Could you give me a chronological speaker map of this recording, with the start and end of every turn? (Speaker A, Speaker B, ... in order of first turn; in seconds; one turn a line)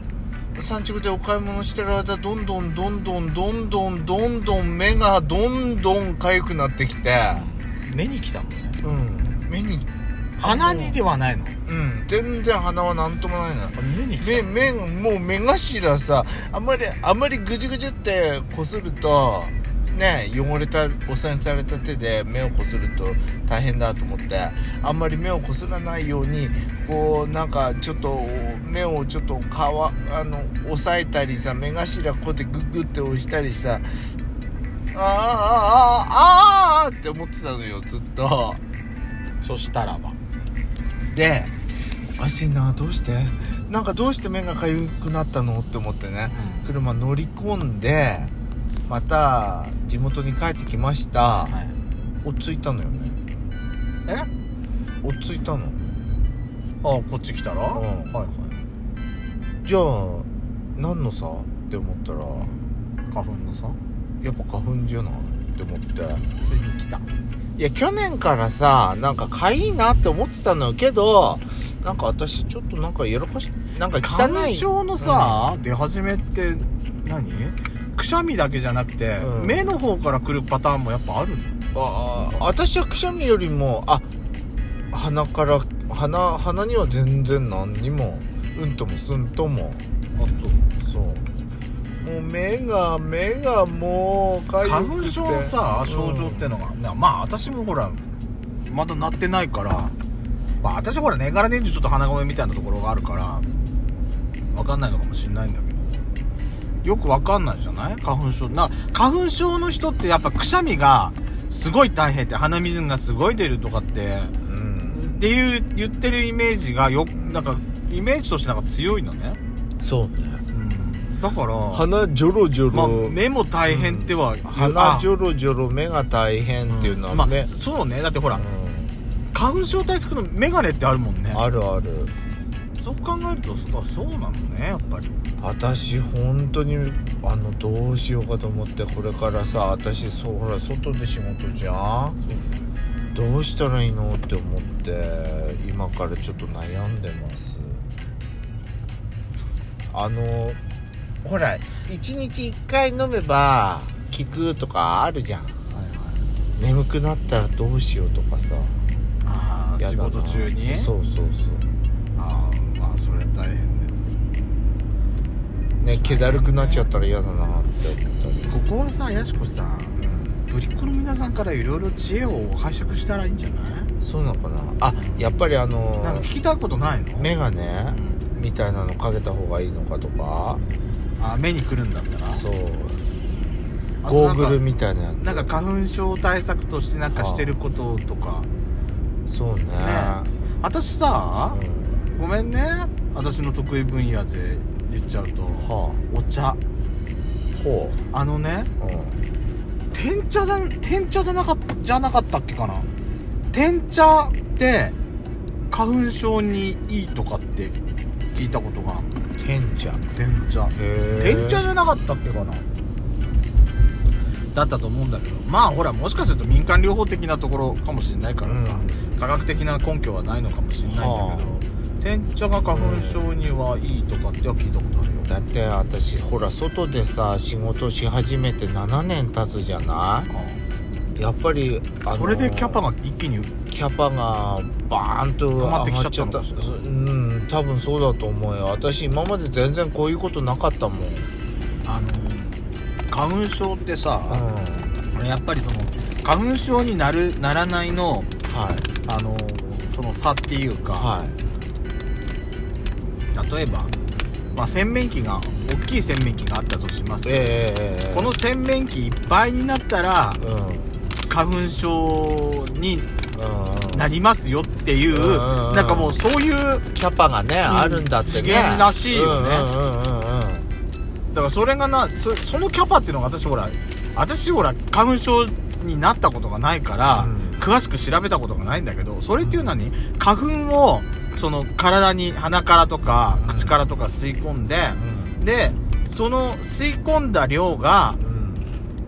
Speaker A: 0.5-7.5
Speaker B: 7.3-8.8
Speaker A: 8.8-9.9
Speaker B: 10.4-11.6
Speaker A: 10.4-11.0
Speaker A: 11.7-34.1
Speaker B: 13.7-14.7
Speaker A: 34.9-38.6
Speaker B: 39.4-40.2
Speaker A: 41.1-41.5
Speaker A: 42.2-48.3
Speaker B: 46.3-46.8
Speaker A: 48.9-51.6
Speaker B: 51.4-51.8
Speaker A: 52.2-53.2
Speaker A: 55.0-55.8
Speaker B: 56.8-58.5
Speaker A: 57.7-58.2
Speaker A: 59.6-62.5
Speaker B: 62.3-63.8
Speaker A: 64.2-66.3
Speaker B: 66.4-67.0
Speaker A: 67.6-75.6
Speaker B: 73.9-82.5
Speaker A: 79.2-79.7
Speaker A: 81.7-84.1
Speaker A: 84.9-89.8
Speaker B: 90.2-90.7
Speaker A: 90.8-91.3
Speaker A: 92.0-96.5
Speaker B: 94.6-98.0
Speaker B: 98.6-99.9
Speaker B: 100.6-103.5
Speaker B: 104.5-106.1
Speaker B: 106.8-114.3
Speaker A: 114.4-115.1
Speaker B: 114.9-119.4
Speaker A: 117.1-117.5
Speaker A: 119.8-120.5
Speaker B: 120.5-121.9
Speaker A: 121.7-127.5
Speaker B: 122.7-125.1
Speaker B: 126.7-128.4
Speaker A: 128.3-128.9
Speaker B: 129.3-131.4
Speaker A: 131.3-132.1
Speaker B: 132.8-135.2
Speaker A: 135.4-142.2
Speaker B: 142.2-142.7
Speaker A: 143.1-147.8
Speaker A: 149.9-150.6
Speaker A: 151.2-155.6
Speaker B: 155.7-156.3
Speaker A: 156.6-158.8
Speaker B: 159.2-160.9
Speaker A: 159.8-161.7
Speaker B: 162.2-164.1
Speaker A: 165.8-168.6
Speaker B: 165.9-166.9
Speaker B: 168.5-173.9
Speaker A: 170.0-170.4
Speaker A: 174.0-176.3
Speaker B: 174.9-175.3
Speaker B: 176.0-177.3
Speaker A: 177.2-180.6
Speaker B: 177.9-178.3
Speaker B: 181.2-182.4
Speaker A: 182.3-183.1
Speaker B: 184.0-184.6
Speaker A: 184.0-185.5
Speaker B: 185.2-188.5
Speaker A: 187.1-187.6
Speaker A: 189.3-190.3
Speaker B: 189.7-196.6
Speaker A: 191.5-192.0
Speaker A: 195.6-196.0
Speaker B: 197.6-198.7
Speaker A: 198.8-199.2
Speaker B: 199.9-202.9
Speaker B: 203.5-204.9
Speaker B: 205.7-207.8
Speaker B: 208.3-209.2
Speaker A: 209.4-210.0
Speaker B: 210.1-212.7
Speaker A: 210.7-211.6
Speaker B: 214.5-225.3
Speaker A: 218.4-219.0
Speaker A: 220.8-221.6
Speaker A: 222.7-223.3
Speaker A: 225.2-230.3
Speaker B: 230.3-230.6
Speaker A: 231.2-232.8
Speaker B: 232.0-233.5
Speaker A: 233.7-241.3
Speaker B: 235.6-236.8
Speaker B: 241.8-248.3
Speaker A: 244.3-244.9
Speaker A: 248.4-248.9
Speaker B: 249.0-251.2
Speaker A: 250.9-251.4
Speaker B: 253.3-253.9
Speaker B: 254.5-260.4
Speaker A: 257.2-258.4
Speaker A: 260.4-261.1
Speaker B: 261.2-263.1
Speaker A: 263.3-264.1
Speaker B: 263.9-266.9
Speaker A: 265.1-266.2
Speaker A: 266.9-270.7
Speaker B: 267.6-269.7
Speaker B: 271.3-288.2
Speaker A: 277.1-277.7
Speaker A: 279.4-279.7
Speaker A: 283.3-283.8
Speaker A: 284.9-285.4
Speaker A: 288.2-288.7